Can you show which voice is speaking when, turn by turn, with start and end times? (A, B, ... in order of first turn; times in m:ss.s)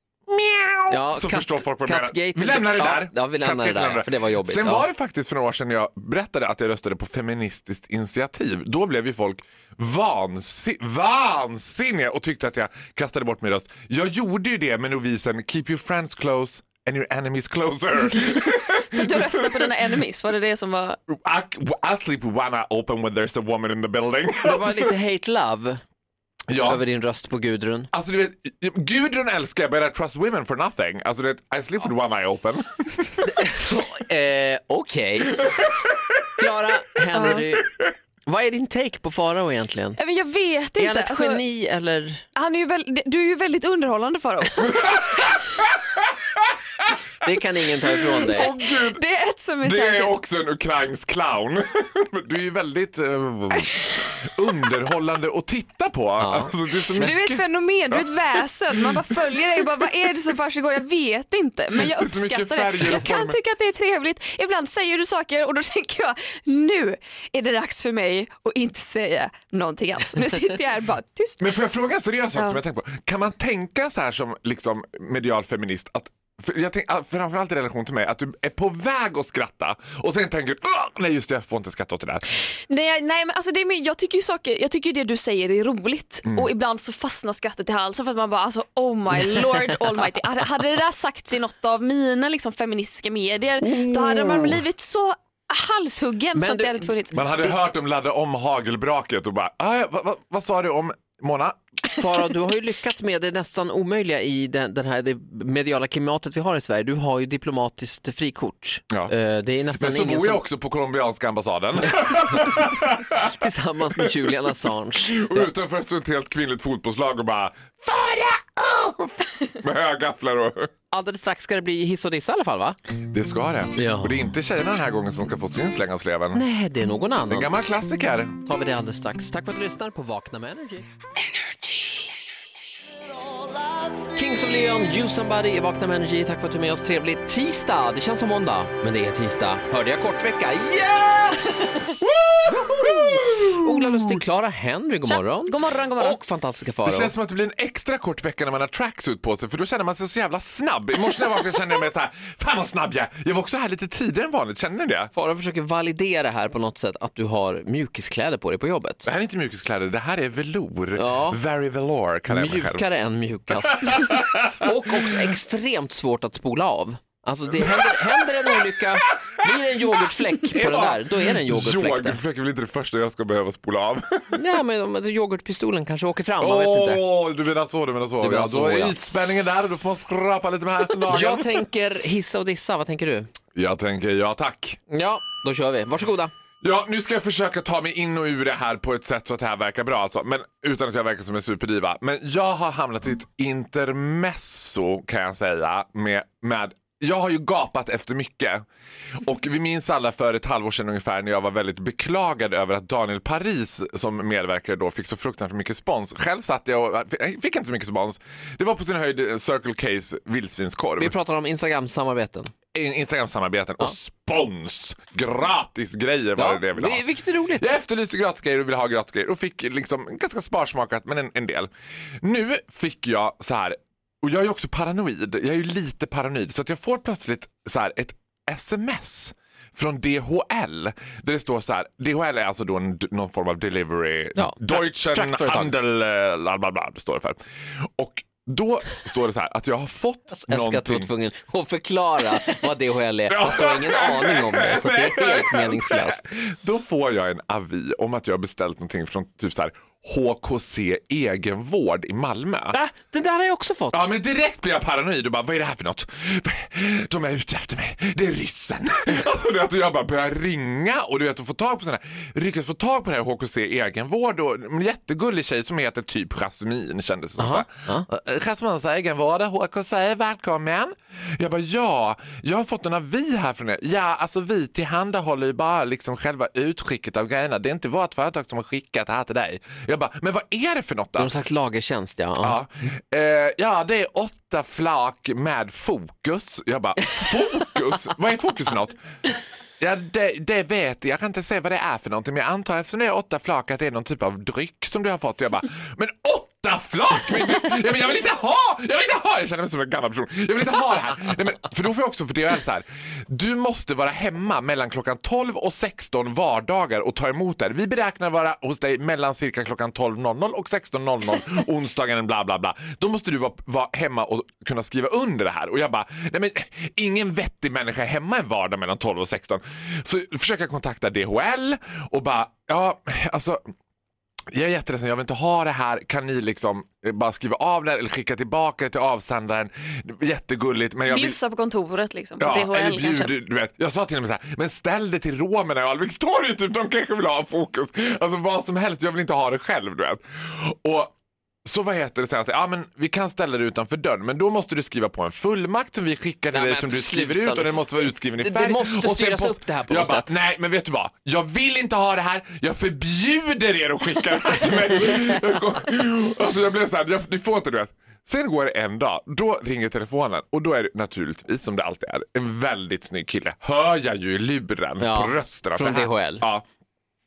0:00.3-0:19.7 A
0:00.9-0:04.9 B
0:18.7-0:21.0 C
0:21.1-0:24.9 A
0:24.4-0:25.8 B
0:26.5-0:26.8 A
0:26.6-0:27.9 B
0:27.9-0:33.5 A
0:33.2-0:35.5 B
0:35.4-0:36.0 A
0:36.4-0:37.7 B
0:37.1-0:37.4 C
0:38.3-0:40.0 B
0:40.0-0:41.4 C
0:40.8-0:42.2 B
0:42.4-0:45.4 C
0:44.6-0:47.3 A
0:47.2-0:48.5 B
0:48.2-0:49.0 A
0:48.4-0:50.2 C
0:49.6-1:00.1 A
0:53.7-0:54.3 C
0:56.2-0:57.1 B
0:57.0-1:11.5 C
1:01.8-1:03.4 A
1:11.4-1:22.3 A
1:22.7-1:37.6 C
1:33.6-1:34.6 A
1:36.4-1:36.9 B
1:37.1-1:41.6 A
1:42.0-1:50.4 B
1:49.8-1:53.3 A
1:53.2-1:55.5 B
1:53.9-1:54.3 A
1:55.0-2:00.7 A
2:00.9-2:02.8 B
2:03.1-2:06.4 A
2:03.8-2:04.2 B
2:06.3-2:07.5 B
2:07.3-2:08.4 A
2:08.4-2:10.9 B
2:14.1-2:21.9 B
2:22.0-2:24.2 A
2:22.7-2:27.1 B
2:25.0-2:26.2 C
2:26.8-2:35.1 A
2:35.1-2:39.1 B
2:39.0-2:42.8 A
2:41.0-2:41.4 B
2:42.3-2:52.2 B
2:43.5-2:45.3 A
2:47.6-2:54.4 A
2:54.3-2:57.0 B
2:56.4-3:01.5 A
2:58.2-2:59.0 B
3:01.1-3:03.3 B
3:03.6-3:04.8 A
3:04.9-3:06.3 B
3:06.6-3:18.6 A
3:19.2-3:31.2 A
3:31.0-3:32.5 B
3:32.7-3:37.1 A
3:36.4-3:37.8 B
3:37.6-3:41.7 A
3:42.2-4:01.1 A
3:54.4-3:55.7 B
4:00.4-4:06.2 B
4:03.3-4:12.8 A
4:12.7-4:14.1 B
4:13.9-4:41.3 A
4:27.4-4:28.1 B
4:41.2-4:42.6 B
4:42.4-4:49.0 A
4:49.8-5:23.6 A
5:24.5-5:31.4 A
5:31.1-5:33.3 C
5:32.4-5:41.2 A
5:41.7-6:06.7 A
5:46.5-5:50.3 B
6:05.0-6:06.5 B